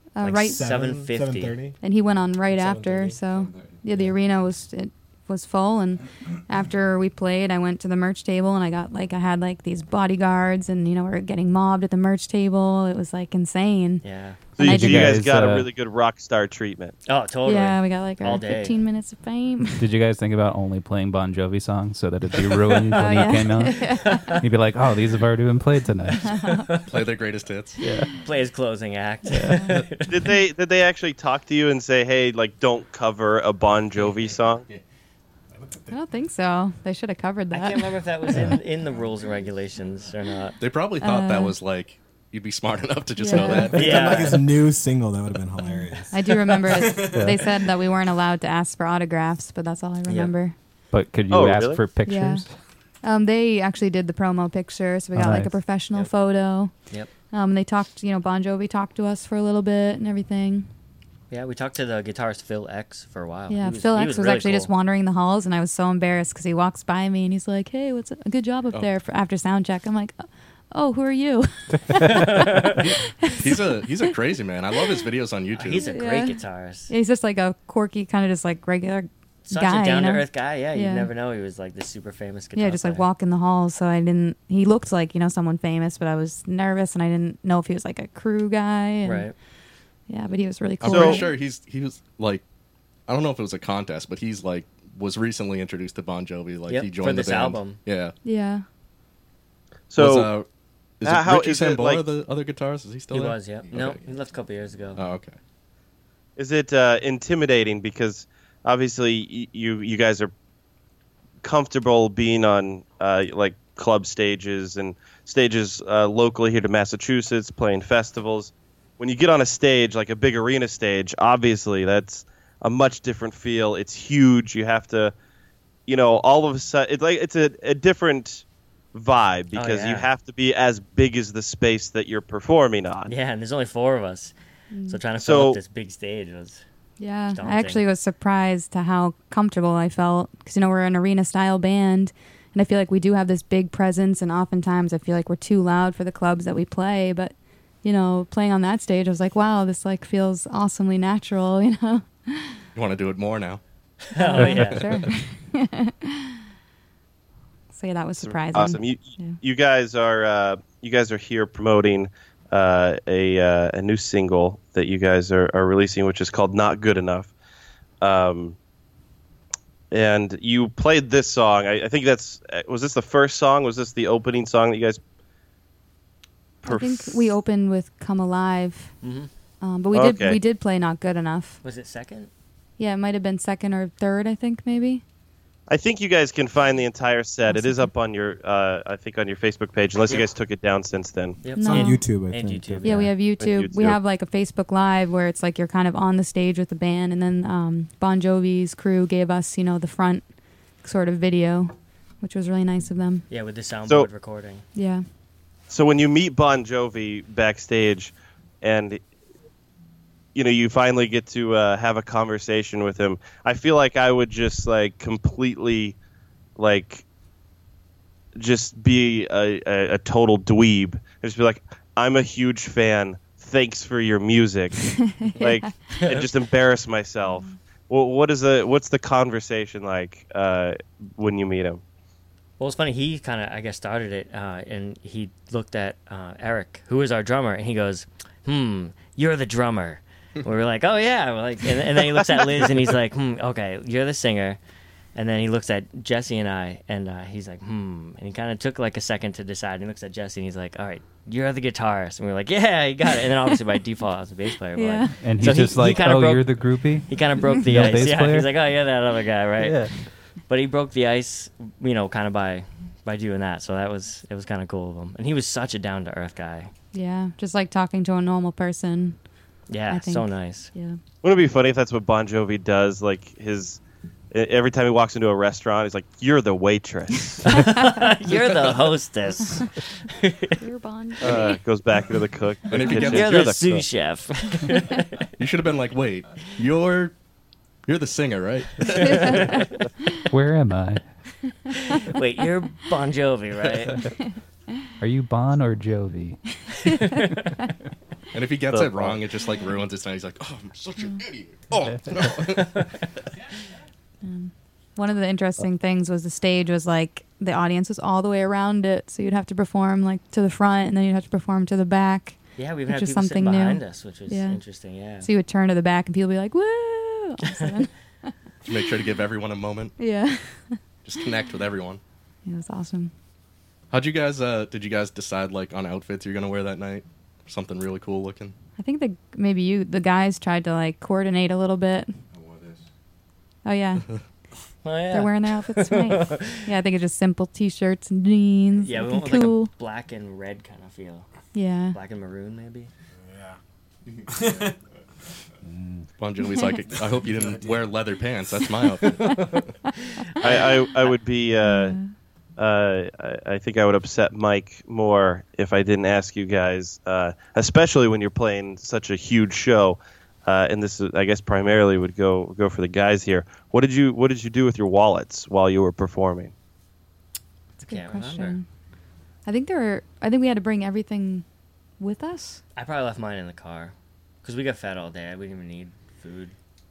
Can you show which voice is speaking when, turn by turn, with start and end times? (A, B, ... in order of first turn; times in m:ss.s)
0:00.1-0:00.7 A
0:00.2-0:01.6 B
0:00.4-0:01.8 C
0:01.8-0:14.0 A
0:02.5-0:03.2 C
0:03.3-0:04.1 D
0:14.0-0:14.4 B
0:14.6-0:16.9 E
0:14.6-0:15.7 F
0:14.6-0:15.2 A
0:17.1-0:18.8 B
0:17.4-0:19.8 A
0:19.8-0:26.4 F
0:22.9-0:24.3 A
0:23.7-0:24.4 B
0:26.3-0:26.6 A
0:26.3-0:26.9 B
0:26.9-0:27.8 G
0:27.8-0:28.2 F
0:28.2-0:30.1 B
0:29.3-0:29.7 F
0:30.1-0:34.6 E
0:35.5-0:35.9 C
0:35.9-0:37.9 A
0:37.5-0:40.6 B
0:38.3-0:38.6 F
0:40.6-0:44.4 G
0:41.0-0:41.6 A
0:43.2-0:43.7 A
0:43.3-0:44.4 B
0:43.7-0:47.4 C
0:46.1-0:50.6 A
0:47.1-0:47.4 F
0:50.1-0:50.3 B
0:50.9-0:52.5 F
0:51.3-0:51.8 E
0:52.1-0:52.4 A
0:53.0-0:56.7 A
0:55.1-0:55.5 F
0:57.3-1:00.7 A
1:01.3-1:04.7 B
1:03.5-1:13.6 A
1:12.1-1:12.8 B
1:12.8-1:15.9 G
1:15.5-1:16.9 B
1:15.8-1:16.4 A
1:16.9-1:21.1 A
1:19.4-1:23.0 B
1:22.6-1:29.3 A
1:29.0-1:29.4 B
1:30.1-1:31.3 A
1:30.8-1:32.4 G
1:30.9-1:31.2 E
1:33.1-1:38.1 G
1:36.7-1:37.8 B
1:38.2-1:38.6 A
1:39.9-1:40.3 E
1:40.0-1:40.5 G
1:41.0-1:44.0 G
1:41.0-1:42.1 E
1:43.1-1:45.1 B
1:43.6-1:44.3 D
1:45.0-1:45.4 G
1:46.4-1:50.3 E
1:51.4-2:05.1 E
2:05.9-2:13.1 E
2:09.5-2:10.1 B
2:13.1-2:14.3 B
2:14.7-2:15.0 A
2:14.9-2:16.6 B
2:15.2-2:15.6 E
2:17.0-2:32.6 A
2:17.3-2:17.8 B
2:32.7-2:33.6 G
2:34.1-2:34.8 B
2:34.1-2:36.4 A
2:34.4-2:35.1 F
2:37.7-2:39.4 A
2:38.2-2:47.3 E
2:48.0-2:48.6 E
2:49.9-2:55.0 E
2:56.6-2:57.3 E
2:56.6-2:58.9 A
2:59.0-2:59.3 B
2:59.6-3:01.6 A
2:59.9-3:00.4 E
3:01.6-3:02.3 B
3:02.8-3:05.0 A
3:05.7-3:11.4 E
3:07.5-3:07.8 A
3:11.4-3:13.1 B
3:11.5-3:13.1 C
3:11.6-3:12.1 A
3:12.8-3:20.3 A
3:13.4-3:14.0 E
3:20.8-3:23.2 A
3:23.3-3:24.6 B
3:24.7-3:25.0 A
3:25.7-3:29.0 E
3:30.4-3:36.0 E
3:36.6-3:37.0 E
3:38.4-3:51.8 E
3:45.2-3:45.7 A
3:46.0-3:46.3 B
3:52.6-4:04.6 B
4:05.1-4:19.9 B
4:14.8-4:15.1 A
4:15.2-4:18.6 F
4:19.6-4:19.9 F
4:20.5-4:26.7 B
4:26.9-4:29.2 A
4:29.7-4:30.7 B
4:29.9-4:31.0 A
4:31.2-4:33.8 E
4:34.3-4:37.7 E
4:37.5-4:40.6 B
4:40.6-4:41.6 A
4:41.2-4:43.8 E
4:42.7-4:43.6 G
4:42.9-4:45.3 B
4:45.4-4:47.1 G
4:47.9-4:49.6 G
4:49.0-4:49.6 B
4:50.3-4:51.0 F
4:51.7-4:54.1 B
4:55.0-4:56.4 F
4:56.9-4:57.4 B
4:58.3-5:02.8 G
4:58.7-4:59.2 E
5:02.6-5:02.9 B
5:04.2-5:14.6 A
5:12.6-5:15.3 B
5:15.2-5:17.9 A
5:18.6-5:19.9 G
5:20.0-5:20.8 A
5:21.0-5:22.0 G
5:22.4-5:23.1 A
5:23.9-5:28.5 G
5:28.8-5:32.1 A
5:32.3-5:32.9 D
5:33.6-5:34.1 A
5:34.8-5:36.6 B
5:35.1-5:39.7 A
5:38.8-5:41.3 B
5:41.5-5:42.0 A
5:41.9-5:42.9 B
5:43.1-5:43.6 C
5:44.1-5:44.7 D
5:44.3-5:44.7 C
5:45.6-5:46.1 C
5:46.2-5:49.6 G
5:46.9-5:48.0 C
5:50.4-5:52.0 E
5:51.6-5:52.1 A
5:52.6-6:06.5 E
6:07.8-6:08.6 A
6:07.9-6:08.6 B
6:09.4-6:11.4 A
6:12.0-6:12.6 A
6:12.7-6:16.6 B